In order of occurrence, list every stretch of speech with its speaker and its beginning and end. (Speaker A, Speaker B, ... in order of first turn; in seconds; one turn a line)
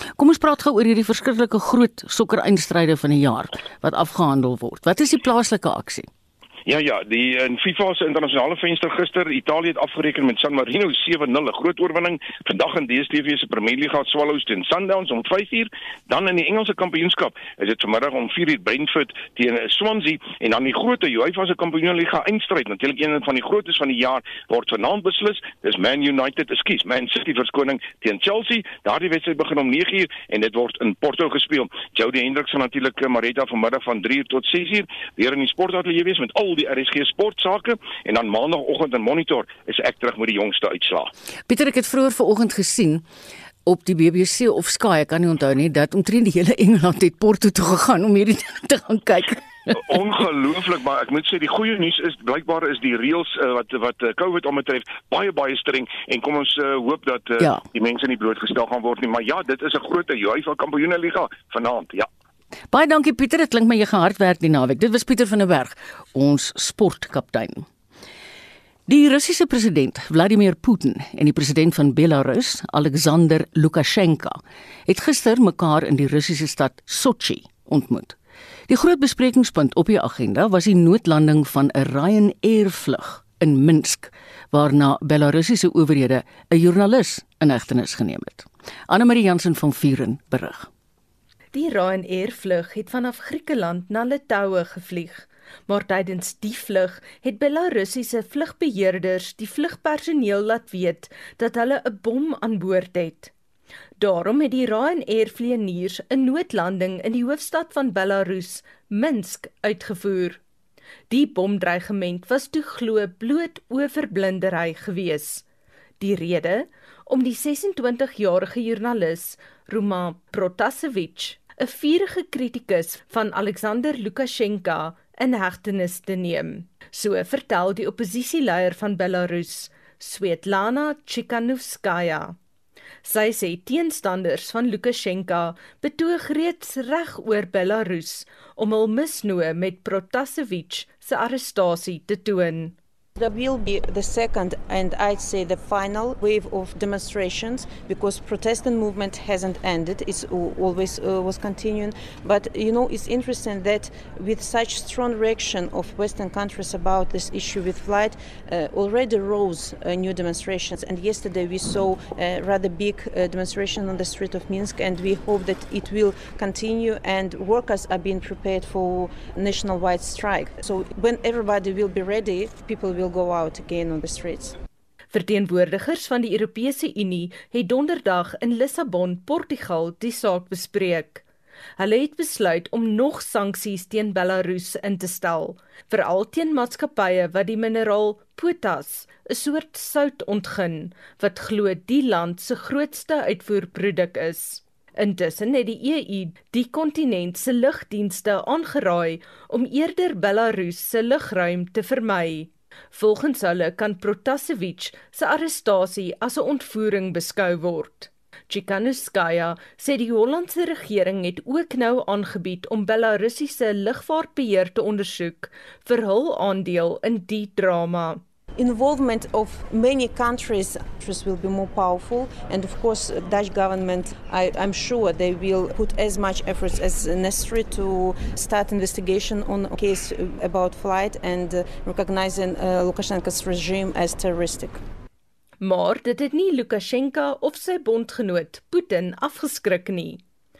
Speaker A: 0.2-6.1
Speaker B: 6.7-41.1
Speaker A: 41.5-43.0
Speaker A: 43.6-49.8
Speaker B: 49.8-62.1
Speaker A: 62.7-67.7
Speaker A: 68.9-78.2
Speaker A: 78.7-90.7
Speaker C: 91.5-103.3
Speaker C: 104.0-110.4
Speaker C: 111.1-115.4
Speaker C: 116.0-132.3
Speaker C: 133.0-142.8
Speaker D: 143.2-174.6
Speaker C: 175.1-181.2
Speaker C: 181.8-218.2
Speaker D: 218.6-234.8
Speaker C: 235.6-240.2